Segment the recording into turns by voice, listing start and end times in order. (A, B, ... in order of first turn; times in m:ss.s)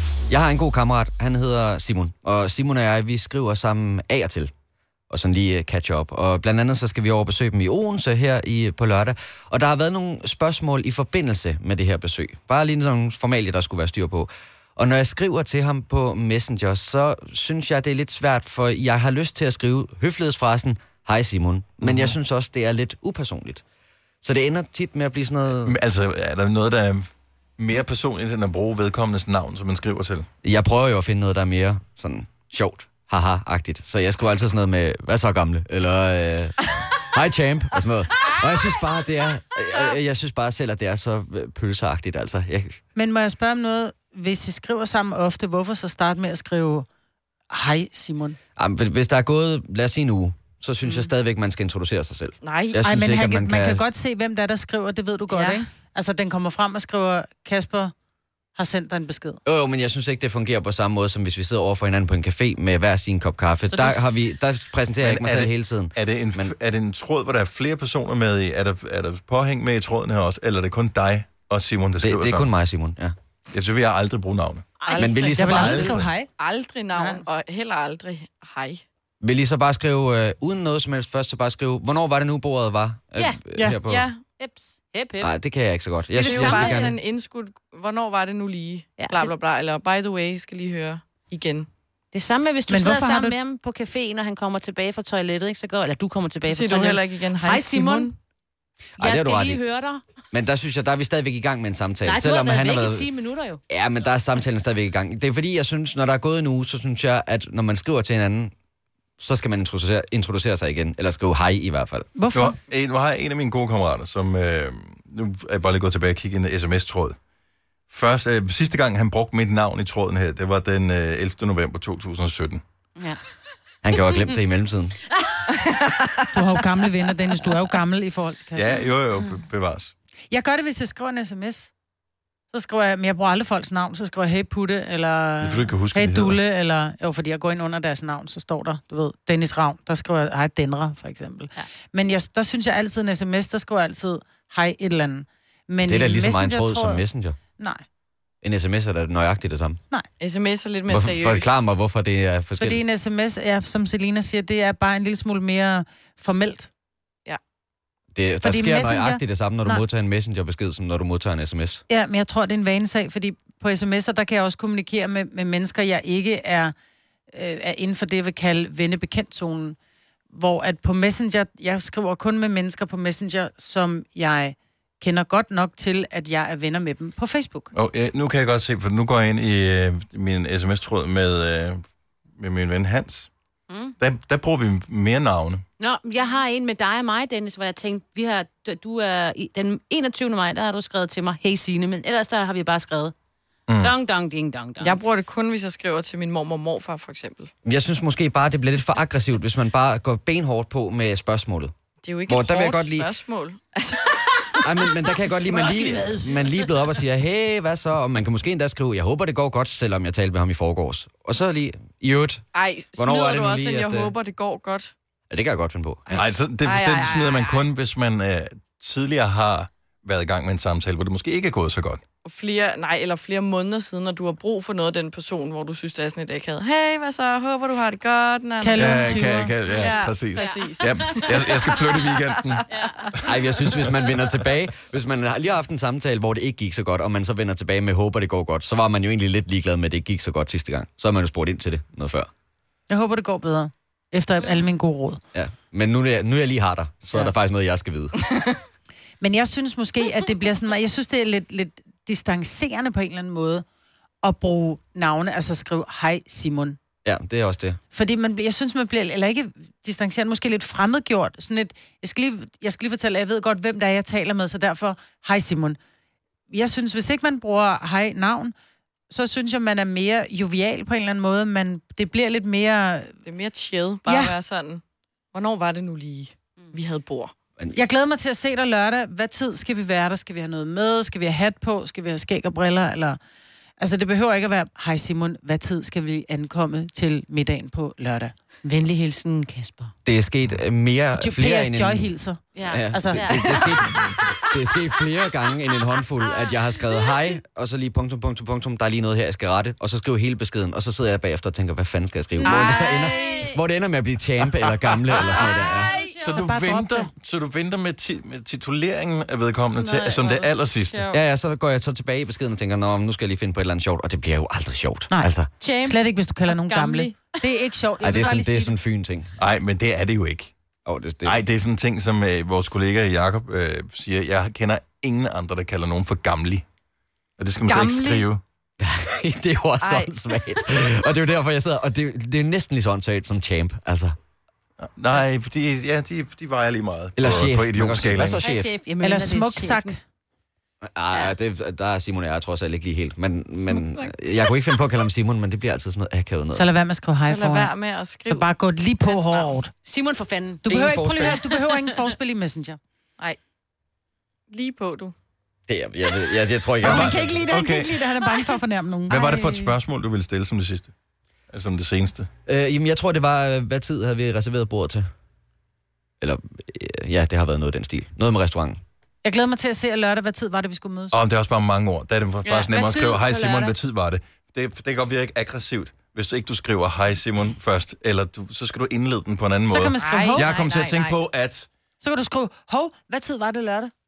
0:00.3-0:04.5 A
0:05.1-0:23.6 A
0:21.8-0:22.2 B
0:24.2-0:25.8 A
0:25.6-0:30.2 B
0:30.4-0:42.8 A
0:42.9-0:46.9 C
0:47.5-0:48.4 C
0:48.6-0:53.8 A
0:52.4-0:52.8 D
0:52.8-0:57.9 C
0:58.5-0:59.4 C
0:59.4-1:06.5 A
1:03.7-1:04.3 D
1:05.0-1:12.5 B
1:12.0-1:13.1 A
1:13.5-1:14.6 B
1:14.8-1:15.1 E
1:14.8-1:15.8 D
1:15.0-1:16.0 A
1:15.3-1:16.3 C
1:15.5-1:16.1 B
1:16.4-1:18.8 D
1:19.2-1:24.1 A
1:23.2-1:23.4 E
1:23.8-1:24.2 D
1:24.4-1:25.3 E
1:25.2-1:27.0 A
1:26.1-1:26.9 E
1:26.2-1:31.7 D
1:29.0-1:29.3 E
1:32.1-1:38.1 E
1:32.7-1:33.4 C
1:36.4-1:38.1 D
1:39.0-1:40.0 E
1:39.0-1:39.6 A
1:40.3-1:43.1 A
1:42.0-1:43.6 E
1:43.7-1:48.5 A
1:49.2-1:52.1 A
1:52.1-1:52.6 C
1:52.3-1:57.2 B
1:57.9-2:02.6 B
2:03.8-2:05.0 A
2:05.5-2:06.3 D
2:06.3-2:08.7 C
2:08.5-2:09.9 B
2:10.3-2:11.7 C
2:12.5-2:27.0 C
2:15.4-2:16.4 B
2:25.8-2:27.4 A
2:27.6-2:27.8 C
2:28.4-2:29.8 A
2:30.2-2:31.5 D
2:30.9-2:32.8 A
2:32.6-2:36.7 C
2:38.1-2:41.8 A
2:38.4-2:39.8 C
2:41.9-2:46.7 C
2:47.3-2:49.8 C
2:50.3-2:57.7 C
2:57.7-3:01.8 B
3:02.4-3:03.3 B
3:04.0-3:05.6 B
3:05.8-3:13.1 E
3:13.7-3:13.9 B
3:13.8-3:15.0 E
3:14.8-3:17.5 D
3:17.6-3:21.7 A
3:22.0-3:24.7 D
3:22.3-3:23.1 A
3:24.6-3:32.4 A
3:32.5-3:34.9 D
3:33.0-3:34.1 A
3:35.3-3:36.2 A
3:36.1-3:37.7 D
3:36.1-3:42.0 B
3:42.2-3:49.2 D
3:48.6-3:49.5 C
3:48.8-3:52.6 B
3:49.7-3:51.5 E
3:49.8-3:53.1 D
3:52.7-3:53.1 E
3:53.2-4:02.3 A
4:02.9-4:05.2 C
4:05.3-4:08.3 A
4:09.2-4:13.6 C
4:14.2-4:16.8 C
4:17.0-4:17.8 A
4:17.9-4:25.8 C
4:26.5-4:28.5 C
4:29.1-4:33.1 C
4:33.2-4:34.8 D
4:34.0-4:34.4 C
4:35.3-4:37.3 D
4:37.7-4:43.2 C
4:43.8-4:48.8 C
4:48.7-4:49.9 E
4:50.0-4:52.1 A
4:51.2-4:53.8 C
4:52.5-4:53.6 E
4:52.7-5:05.9 A
4:53.3-4:53.7 D
5:02.4-5:03.6 E
5:02.4-5:03.5 D
5:05.3-5:06.1 D
5:05.5-5:06.2 E
5:06.2-5:11.0 B
5:06.2-5:07.1 C
5:09.8-5:11.2 D
5:11.1-5:15.5 A
5:15.1-5:18.7 C
5:15.6-5:17.1 E
5:18.0-5:19.3 A
5:19.4-5:20.5 B
5:20.8-5:21.4 A
5:21.2-5:26.6 B
5:27.4-5:28.4 B
5:27.6-5:28.3 D
5:28.8-5:34.2 A
5:29.8-5:30.3 D
5:34.8-5:38.4 B
5:37.2-5:38.7 A
5:38.4-5:39.9 E
5:39.0-5:40.0 C
5:40.8-5:46.6 A
5:43.7-5:44.1 E
5:46.5-5:47.7 C
5:47.2-5:48.5 D
5:48.3-5:49.7 C
5:49.0-5:49.5 D
5:49.7-5:50.7 E
5:50.6-5:52.8 C
5:50.7-5:51.4 A
5:54.5-5:55.1 D
5:55.7-5:57.3 A
5:56.8-5:58.1 B
5:56.8-5:59.2 C
5:59.1-6:00.9 B
5:59.1-5:59.7 E
6:01.5-6:02.3 B
6:02.4-6:05.0 A
6:06.2-6:08.8 A
6:09.2-6:11.2 C
6:11.1-6:21.7 B
6:12.4-6:13.7 E
6:19.7-6:20.6 C
6:20.0-6:21.1 D
6:22.0-6:23.9 C